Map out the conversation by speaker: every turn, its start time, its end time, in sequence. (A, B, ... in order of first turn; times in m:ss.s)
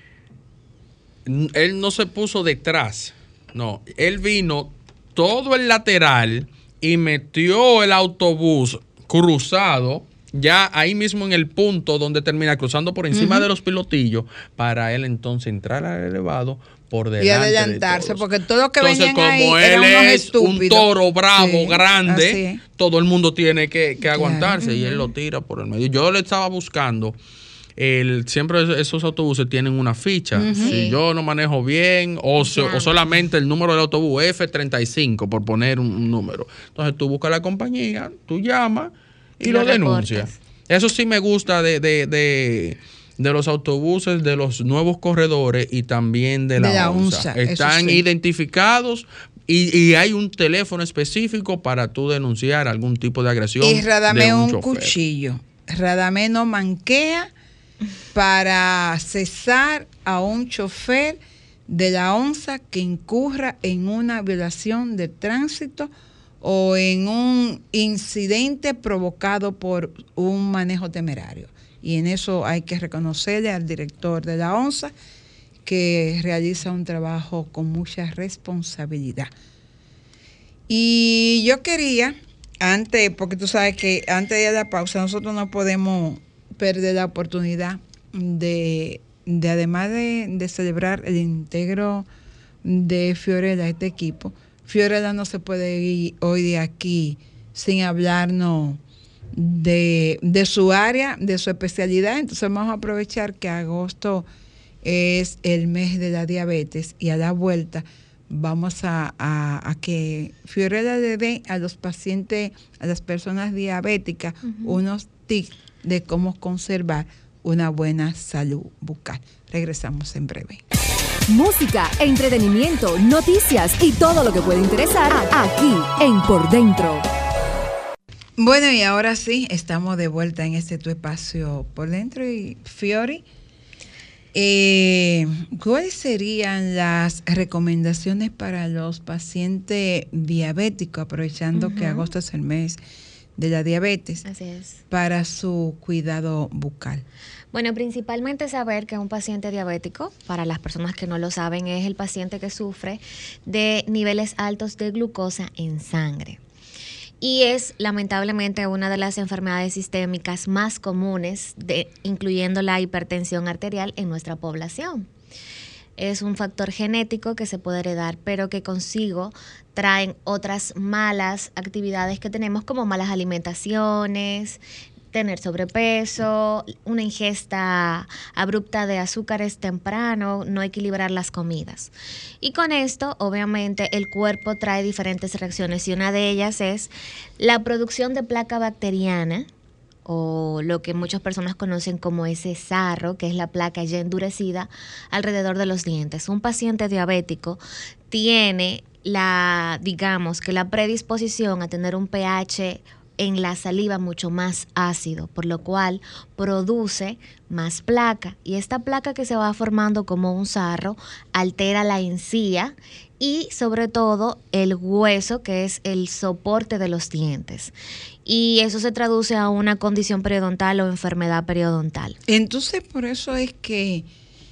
0:01.3-0:18.2 A
0:13.1-0:13.5 B
0:17.2-0:22.6 B
0:18.8-0:27.2 A
0:24.0-0:25.1 B
0:27.8-0:55.0 A
0:30.3-0:30.8 B
0:30.6-0:31.0 C
0:32.4-0:33.0 C
0:39.4-0:40.4 C
0:46.6-0:48.0 B
0:53.6-0:57.3 B
0:58.1-1:14.9 B
1:15.6-1:19.3 B
1:20.7-1:32.1 B
1:32.6-1:38.8 B
1:39.3-1:44.3 B
1:44.8-2:00.6 B
1:54.4-1:54.8 C
2:01.3-2:07.0 D
2:08.4-2:13.2 B
2:14.3-2:22.8 B
2:21.6-2:22.1 C
2:23.4-2:24.2 B
2:24.2-2:24.8 C
2:24.9-2:27.0 B
2:27.5-2:36.4 C
2:37.2-2:45.1 C
2:46.0-2:54.6 C
2:55.1-3:09.5 C
3:10.1-3:37.7 C
3:38.2-3:42.2 C
3:42.3-3:44.1 B